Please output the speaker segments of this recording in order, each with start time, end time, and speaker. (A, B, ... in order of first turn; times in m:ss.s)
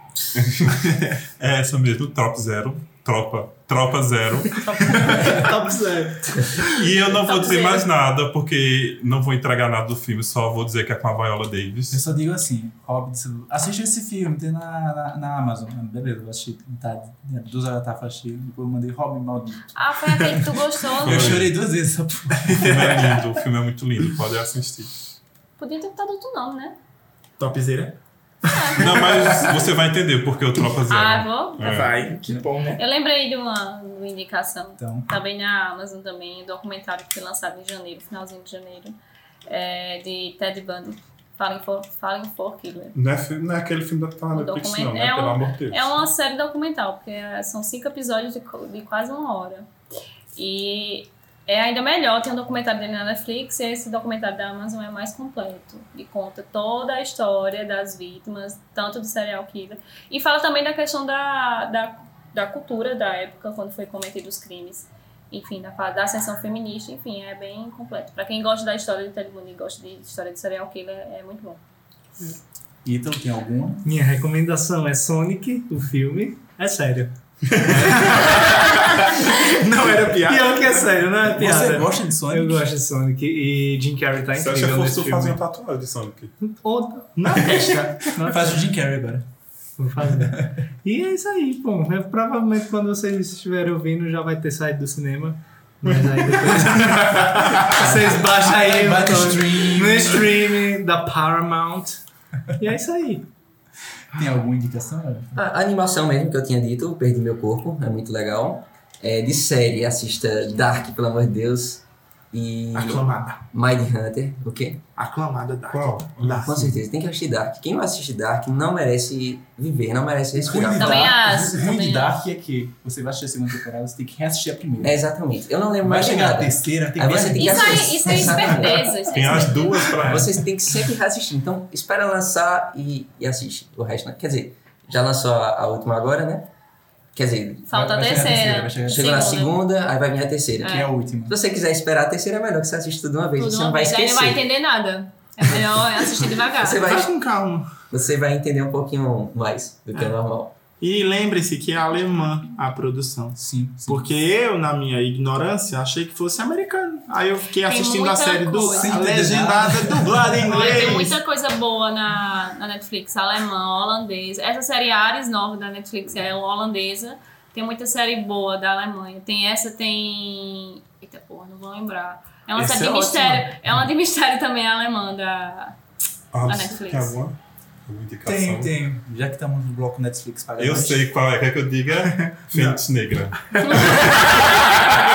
0:00.3-0:05.0 A
0:04.6-0:06.6 B
0:05.0-0:05.4 C
0:06.6-0:12.0 A
0:07.2-0:07.9 D
0:11.9-0:19.7 C
0:19.8-0:21.4 D
0:21.0-0:22.7 C
0:21.0-0:21.5 A
0:22.4-0:23.2 E
0:22.5-0:24.9 A
0:25.6-0:26.8 D
0:27.4-0:29.7 E
0:28.5-0:29.0 D
0:28.8-0:32.0 A
0:30.9-0:31.7 D
0:31.6-0:32.8 E
0:32.8-0:39.0 D
0:34.8-0:35.1 C
0:39.5-0:43.0 D
0:43.0-0:46.0 A
0:44.3-0:49.7 D
0:50.4-1:11.6 D
1:12.8-1:13.8 C
1:13.8-1:18.8 B
1:18.1-1:20.9 E
1:20.2-1:25.4 B
1:21.3-1:22.7 C
1:24.4-1:26.3 A
1:26.5-1:28.6 B
1:27.2-1:28.2 E
1:28.2-1:29.3 C
1:29.8-1:42.0 B
1:36.9-1:37.8 E
1:37.6-1:40.3 C
1:42.6-1:43.3 B
1:44.1-1:45.4 C
1:45.4-1:54.8 F
1:52.7-1:53.4 E
1:55.0-1:56.6 E
1:55.7-1:56.8 A
1:56.4-2:01.2 F
2:00.4-2:05.0 C
2:00.7-2:02.2 D
2:04.8-2:09.1 F
2:05.8-2:08.6 C
2:07.4-2:09.9 D
2:09.1-2:10.5 A
2:10.0-2:16.5 F
2:17.1-2:17.7 F
2:17.7-2:19.6 D
2:17.7-2:19.3 C
2:18.9-2:24.5 F
2:20.6-2:20.9 D
2:20.6-2:21.4 C
2:23.4-2:26.8 D
2:26.6-2:27.1 F
2:26.8-2:27.8 E
2:27.9-2:30.6 F
2:30.8-2:41.2 E
2:33.4-2:34.1 C
2:37.6-2:39.1 D
2:38.6-2:40.7 C
2:40.4-2:55.8 D
2:52.6-2:53.6 E
2:56.3-2:58.7 A
2:56.4-2:57.2 D
2:58.3-3:01.1 C
3:00.6-3:04.3 A
3:01.9-3:02.8 E
3:03.5-3:04.6 E